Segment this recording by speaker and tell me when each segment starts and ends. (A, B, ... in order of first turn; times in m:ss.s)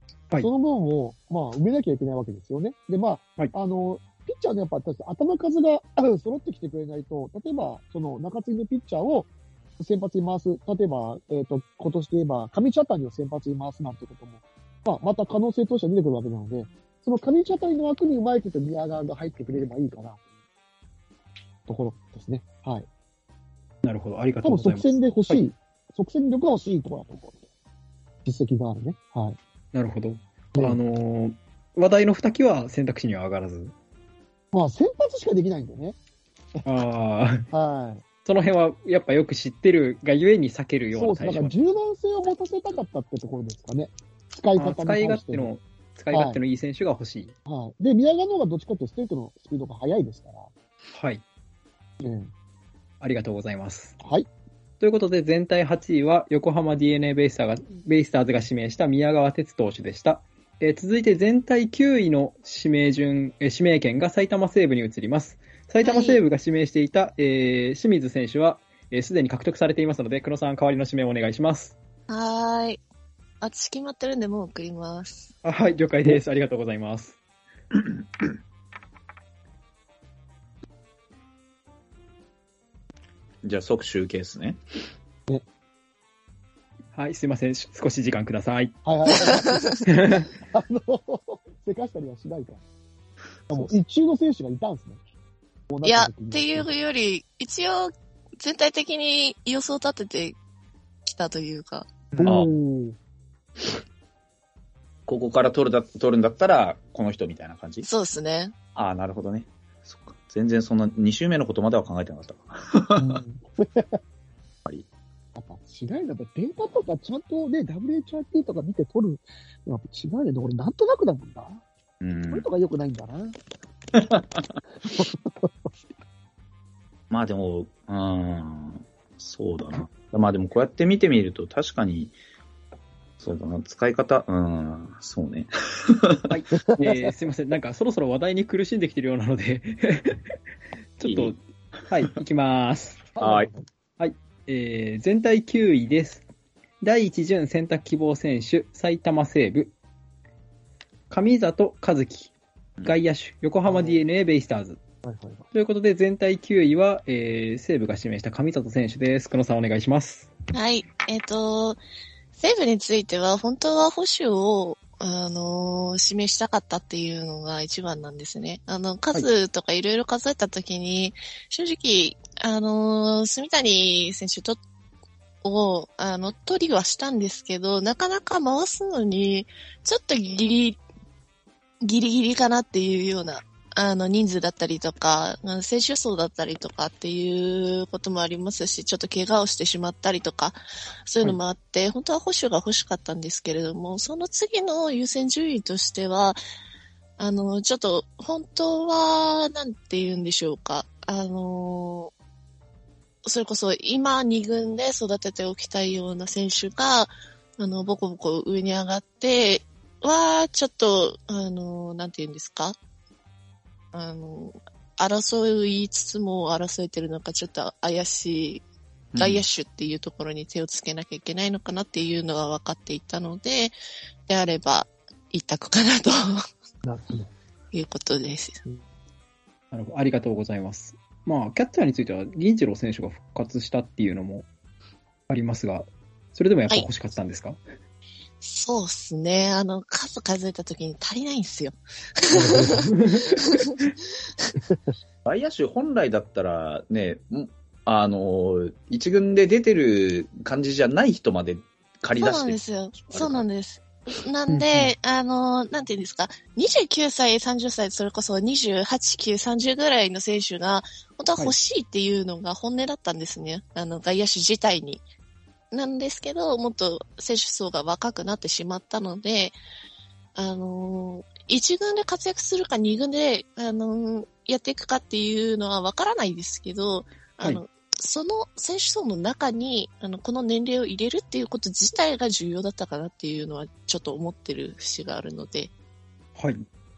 0:00.4-0:20.2 A
0:21.6-0:22.9 A
0:23.8-0:25.4 B
0:24.4-0:27.4 A
0:28.2-0:29.4 A
0:29.7-0:33.7 B
0:34.5-0:36.0 A
0:36.6-0:37.5 B
0:37.5-0:38.0 A
0:38.2-0:41.6 B
0:40.9-0:45.5 A
0:44.6-0:47.3 B
0:46.1-0:46.4 A
0:47.5-0:50.5 A
0:50.9-0:51.2 B
0:52.0-0:52.3 A
0:53.0-0:54.0 B
0:54.0-0:54.3 A
0:54.8-1:11.7 B
1:05.8-1:06.2 C
1:12.1-1:12.8 C
1:13.4-1:15.3 C
1:15.4-1:17.2 B
1:23.4-1:24.6 D
1:26.9-1:28.8 B
1:28.8-1:32.6 A
1:29.3-1:29.6 C
1:29.9-1:30.2 B
1:33.5-1:35.0 A
1:35.7-1:36.7 A
1:35.8-1:40.4 C
1:41.0-1:41.9 C
1:42.2-1:43.0 A
1:42.2-1:42.5 D
1:45.1-1:47.9 D
1:47.8-1:48.5 C
1:48.8-1:53.2 D
1:53.0-1:54.0 A
1:55.4-2:01.6 A
2:02.0-2:02.4 D
2:02.3-2:03.4 A
2:03.9-2:04.5 D
2:04.9-2:05.5 A
2:07.1-2:12.1 D
2:13.2-2:16.3 D
2:16.3-2:20.2 B
2:16.5-2:17.1 A
2:21.0-2:23.0 B
2:21.0-2:21.3 D
2:23.2-2:23.7 A
2:23.2-2:23.5 D
2:24.0-2:26.2 B
2:26.8-2:29.7 B
2:31.1-2:32.3 B
2:32.8-2:34.8 B
2:33.6-2:34.0 A
2:35.0-2:35.4 A
2:35.5-2:40.3 B
2:40.5-2:41.8 C
2:42.3-2:54.6 C
2:55.4-3:00.8 C
3:01.8-3:16.4 C
3:17.2-3:22.1 C
3:23.2-3:32.8 C
3:33.9-3:38.6 C
3:39.1-3:39.4 D
3:39.2-3:43.7 C
3:44.3-3:46.4 C
3:46.8-3:47.3 A
3:47.7-3:48.6 C
3:49.7-3:54.4 B
3:55.3-3:57.6 B
3:58.4-4:03.9 C
4:02.4-4:02.7 A
4:02.8-4:03.2 B
4:05.2-4:13.4 D
4:12.2-4:25.0 C
4:14.5-4:14.9 B
4:25.7-4:29.6 C
4:30.4-4:45.7 C
4:46.4-4:46.6 B